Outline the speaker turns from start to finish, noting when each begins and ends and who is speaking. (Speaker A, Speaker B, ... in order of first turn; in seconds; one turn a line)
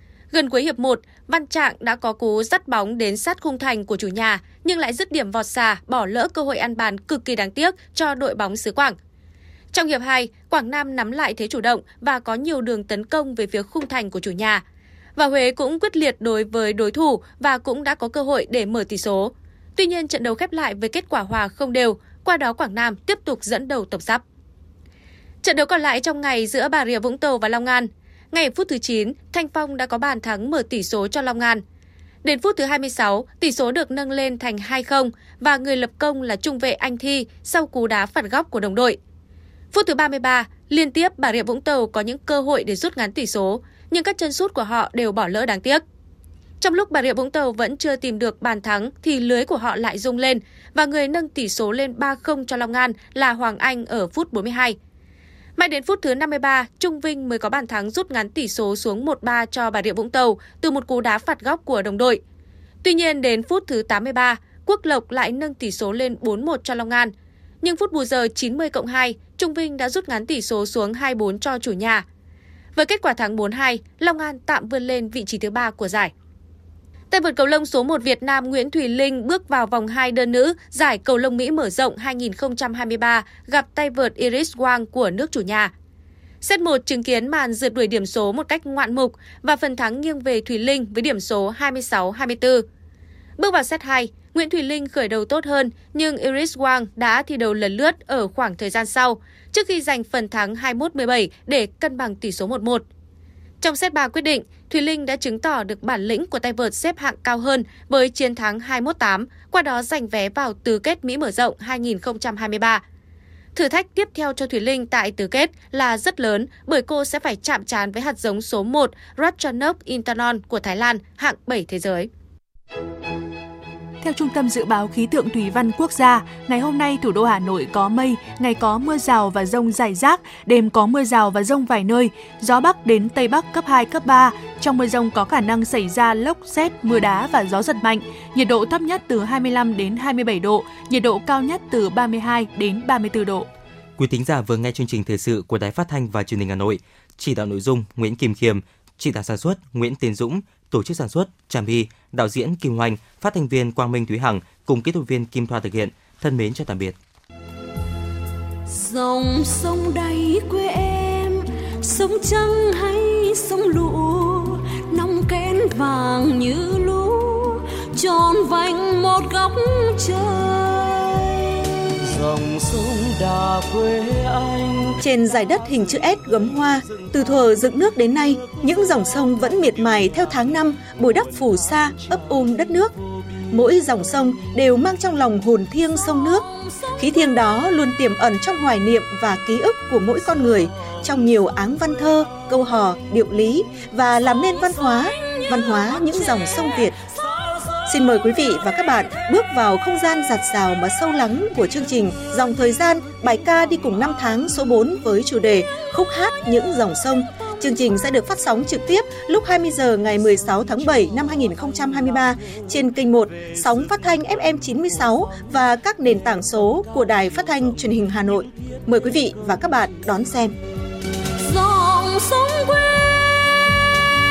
Speaker A: 0.3-9.0
Speaker A: 9.7-14.6
Speaker A: 15.2-24.2
Speaker A: 25.4-31.6
Speaker A: 32.2-39.0
Speaker A: 39.7-45.8
Speaker A: 46.6-54.8
Speaker A: 55.6-62.2
Speaker A: 62.8-72.0
Speaker A: 72.8-76.1
Speaker A: 77.1-85.7
Speaker A: 86.4-92.7
Speaker A: 93.4-102.8
Speaker A: 103.6-112.8
Speaker A: 113.5-122.1
Speaker B: 124.0-143.5
Speaker C: 144.0-157.0
Speaker D: 158.7-171.5
Speaker E: 172.1-175.0
Speaker F: 175.0-182.9
Speaker F: 183.5-186.4
Speaker D: 186.0-187.1
Speaker F: 187.0-197.0
Speaker F: 197.9-220.5
Speaker D: 221.4-223.7